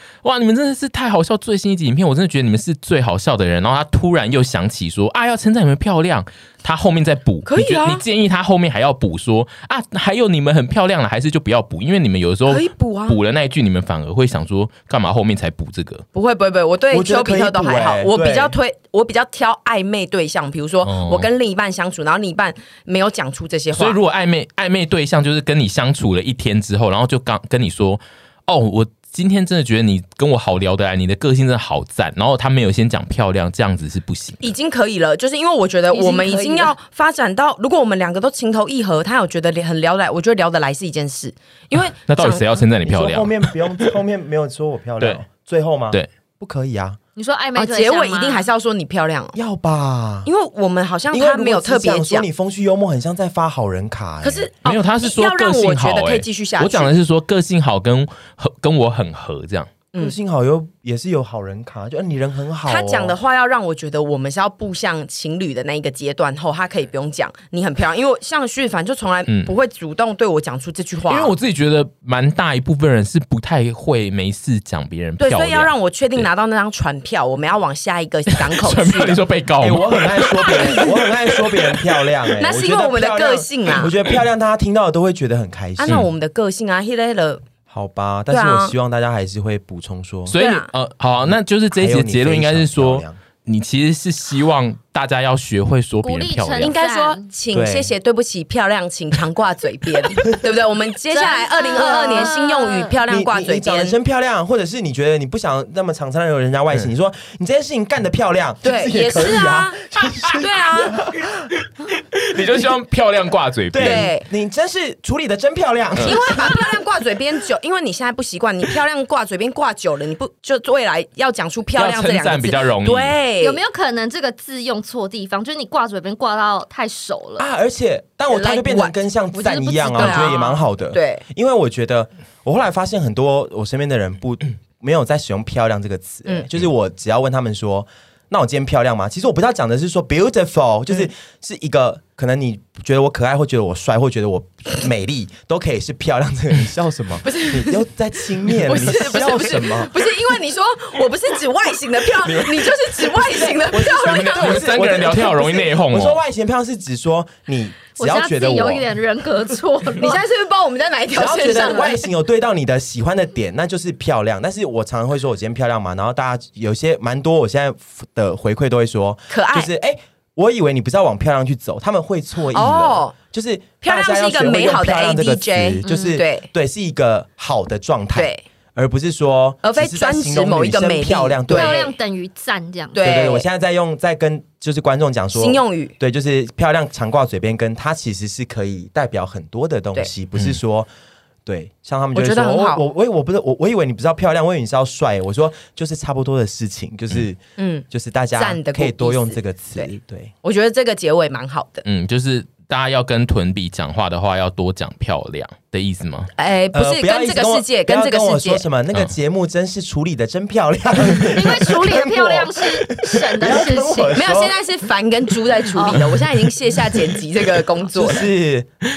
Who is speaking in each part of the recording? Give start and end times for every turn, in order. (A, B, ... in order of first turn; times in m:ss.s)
0:00.2-0:16.0 A
0:07.4-0:08.0 B
0:12.4-0:13.2 B
0:16.1-0:24.0 B
0:16.9-0:18.5 C
0:20.8-0:21.3 A
0:23.7-0:34.4 A
0:34.4-0:42.4 B
0:35.9-0:36.7 D
0:42.0-0:43.9 A
0:42.8-0:47.0 C
0:47.2-0:48.5 D
0:47.5-0:49.3 B
0:49.3-0:50.3 C
0:50.2-0:52.3 B
0:51.1-0:54.5 C
0:54.2-0:56.9 B
0:54.6-0:59.7 A
1:00.0-1:03.1 C
1:02.6-1:11.3 B
1:09.3-1:09.5 A
1:11.1-1:16.3 A
1:15.2-1:19.2 B
1:18.3-1:20.8 A
1:19.6-1:26.1 C
1:20.6-1:20.9 B
1:22.4-1:23.9 B
1:25.8-1:27.4 B
1:25.8-1:26.1 A
1:27.7-1:30.4 C
1:28.3-1:28.7 B
1:30.3-1:36.8 A
1:30.3-1:30.7 B
1:31.7-1:33.2 C
1:36.0-1:37.3 D
1:36.6-1:44.0 B
1:37.5-1:37.9 C
1:41.1-1:42.9 D
1:43.1-1:51.3 C
1:48.6-1:51.0 B
1:51.8-1:54.1 A
1:53.7-1:56.6 C
1:53.8-1:54.2 B
1:55.9-1:56.2 A
1:56.0-2:03.6 B
2:01.7-2:03.2 A
2:03.4-2:07.4 D
2:07.4-2:29.9 C
2:08.3-2:08.9 B
2:09.3-2:10.6 D
2:09.9-2:10.4 B
2:10.9-2:11.2 B
2:27.2-2:27.9 B
2:28.5-2:34.8 B
2:33.1-2:38.9 C
2:34.2-2:36.2 A
2:38.0-2:40.2 D
2:40.0-2:42.0 B
2:41.1-3:01.8 C
2:41.5-2:41.9 D
2:49.3-2:49.7 B
2:52.5-2:53.1 B
2:53.8-2:56.5 B
2:55.8-2:56.2 D
2:58.1-2:58.4 B
2:59.6-3:01.9 B
3:01.5-3:03.1 D
3:02.9-3:03.5 B
3:03.0-3:10.9 C
3:05.3-3:05.9 B
3:11.4-3:17.4 C
3:12.1-3:12.8 B
3:17.6-3:19.9 B
3:17.9-3:20.3 C
3:20.4-3:21.8 B
3:21.8-3:26.3 A
3:26.4-3:28.6 B
3:26.7-3:34.5 C
3:31.2-3:34.2 D
3:34.1-3:38.3 B
3:35.7-3:36.1 D
3:37.9-3:38.7 C